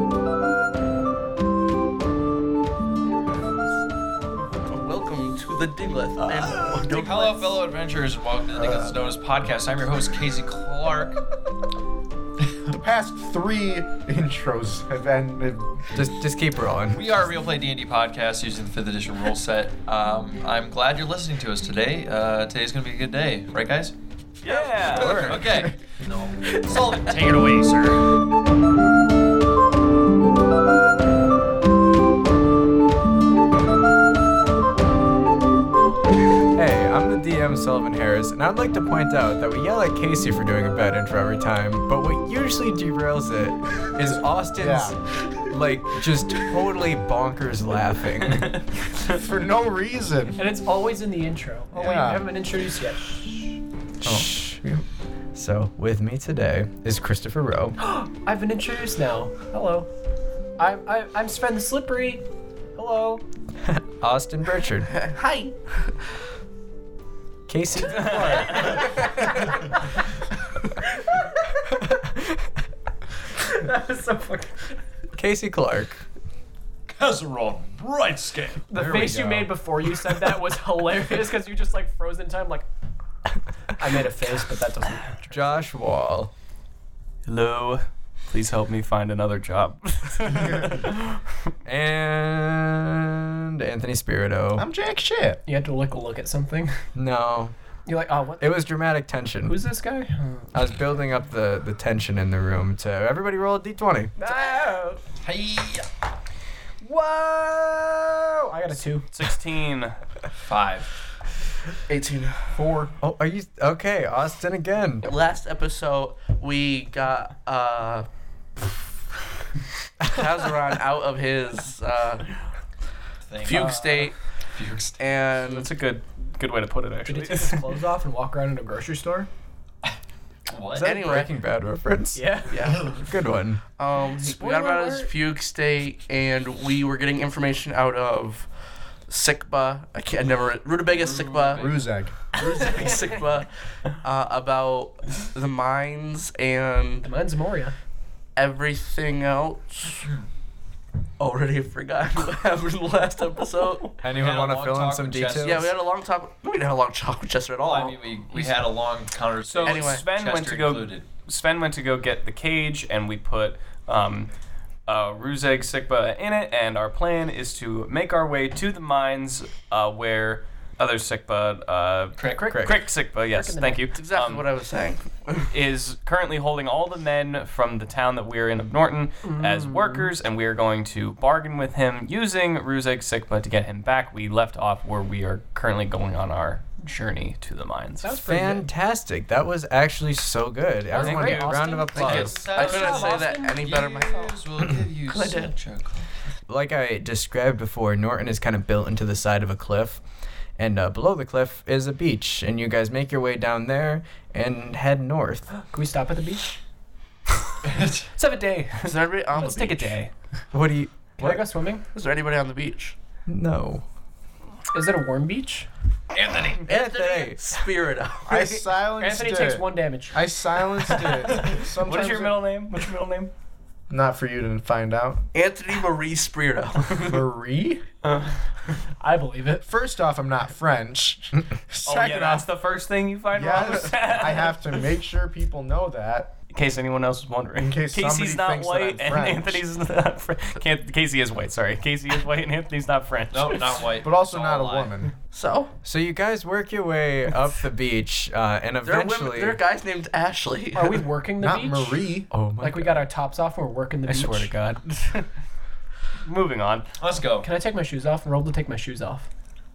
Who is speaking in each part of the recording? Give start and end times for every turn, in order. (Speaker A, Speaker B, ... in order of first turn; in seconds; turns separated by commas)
Speaker A: 4.5-7.5, Speaker B: 6.6-11.2, Speaker B: 12.4-12.8, Speaker C: 12.7-15.9, Speaker D: 15.9-17.0, Speaker B: 16.9-23.9, Speaker E: 24.4-25.4, Speaker B: 24.5-28.1, Speaker D: 24.9-25.4, Speaker D: 36.5-48.6, Speaker C: 44.0-45.0, Speaker C: 49.0-50.4, Speaker F: 50.4-53.6, Speaker C: 51.7-52.2, Speaker C: 54.0-54.8, Speaker D: 54.0-54.6, Speaker D: 55.3-57.8, Speaker F: 57.8-59.9, Speaker F: 60.6-63.2, Speaker D: 63.6-64.9, Speaker A: 64.9-66.0, Speaker D: 67.5-68.7, Speaker E: 67.9-68.8, Speaker F: 68.1-68.5, Speaker A: 68.8-69.2, Speaker D: 71.8-72.5, Speaker F: 73.3-74.7, Speaker D: 75.1-76.0, Speaker B: 76.9-78.7, Speaker F: 78.7-82.7, Speaker C: 78.8-79.5, Speaker F: 83.7-85.5, Speaker D: 85.3-86.3, Speaker E: 87.2-91.0, Speaker C: 90.2-90.8, Speaker D: 91.6-94.7, Speaker C: 94.5-95.4, Speaker F: 95.5-96.8, Speaker D: 96.9-97.5, Speaker F: 97.8-98.6, Speaker D: 98.4-99.6, Speaker F: 99.5-100.2, Speaker D: 100.5-104.1, Speaker F: 104.2-105.0, Speaker B: 105.2-105.9, Speaker F: 106.8-109.1, Speaker E: 109.1-110.0, Speaker B: 110.4-110.9, Speaker A: 111.9-112.6, Speaker C: 112.5-113.0, Speaker D: 113.0-115.1, Speaker A: 115.0-118.1, Speaker A: 120.0-122.3, Speaker B: 123.3-125.0, Speaker A: 123.4-124.2, Speaker F: 123.6-123.8, Speaker A: 125.0-125.7, Speaker E: 125.4-127.6, Speaker F: 127.0-129.3, Speaker B: 130.5-130.9, Speaker D: 130.8-132.3, Speaker A: 130.8-131.3, Speaker F: 132.1-132.7, Speaker A: 132.5-133.0, Speaker B: 132.6-133.1, Speaker D: 133.0-133.6, Speaker A: 133.8-138.5, Speaker F: 134.4-135.1, Speaker A: 139.1-141.7, Speaker B: 140.9-141.8, Speaker C: 141.5-142.3, Speaker A: 142.2-147.1, Speaker F: 142.5-142.9, Speaker F: 147.0-147.7, Speaker A: 148.3-150.1, Speaker A: 151.2-154.0, Speaker D: 154.0-155.7, Speaker B: 154.1-155.7, Speaker A: 155.4-158.6, Speaker B: 157.6-161.0, Speaker E: 159.5-164.3, Speaker A: 159.6-160.1, Speaker E: 164.9-174.4, Speaker F: 172.2-173.8, Speaker D: 172.5-172.8, Speaker A: 173.9-175.5, Speaker E: 175.5-188.1, Speaker F: 179.2-180.1, Speaker F: 188.0-188.7, Speaker D: 188.2-192.4, Speaker F: 190.9-193.7, Speaker E: 190.9-191.6, Speaker B: 191.9-196.1, Speaker A: 191.9-194.3, Speaker A: 195.1-195.5, Speaker D: 196.5-200.0, Speaker D: 200.6-205.5, Speaker F: 205.7-206.6, Speaker B: 207.7-208.1, Speaker F: 208.1-210.0, Speaker A: 208.8-210.0, Speaker E: 209.4-210.0, Speaker D: 210.5-211.4, Speaker F: 211.2-211.8, Speaker A: 211.9-212.9, Speaker D: 213.3-213.8, Speaker F: 214.7-215.7, Speaker B: 216.1-216.7, Speaker A: 216.7-218.5, Speaker D: 216.7-217.4, Speaker C: 218.3-222.4, Speaker F: 219.0-220.3, Speaker E: 220.9-223.3, Speaker C: 223.9-225.2, Speaker A: 225.3-227.2, Speaker C: 226.9-227.8, Speaker F: 229.0-229.7, Speaker C: 229.6-232.5, Speaker E: 231.8-234.8, Speaker C: 233.3-236.3, Speaker E: 236.5-243.7, Speaker C: 237.6-239.6, Speaker B: 243.3-244.9, Speaker C: 244.0-245.1, Speaker A: 245.3-245.7, Speaker D: 245.8-249.6, Speaker A: 248.8-251.0, Speaker F: 250.7-254.5, Speaker C: 251.4-252.3, Speaker D: 252.3-253.0, Speaker E: 254.1-255.3, Speaker E: 256.2-256.9, Speaker B: 257.0-257.5, Speaker F: 257.4-259.3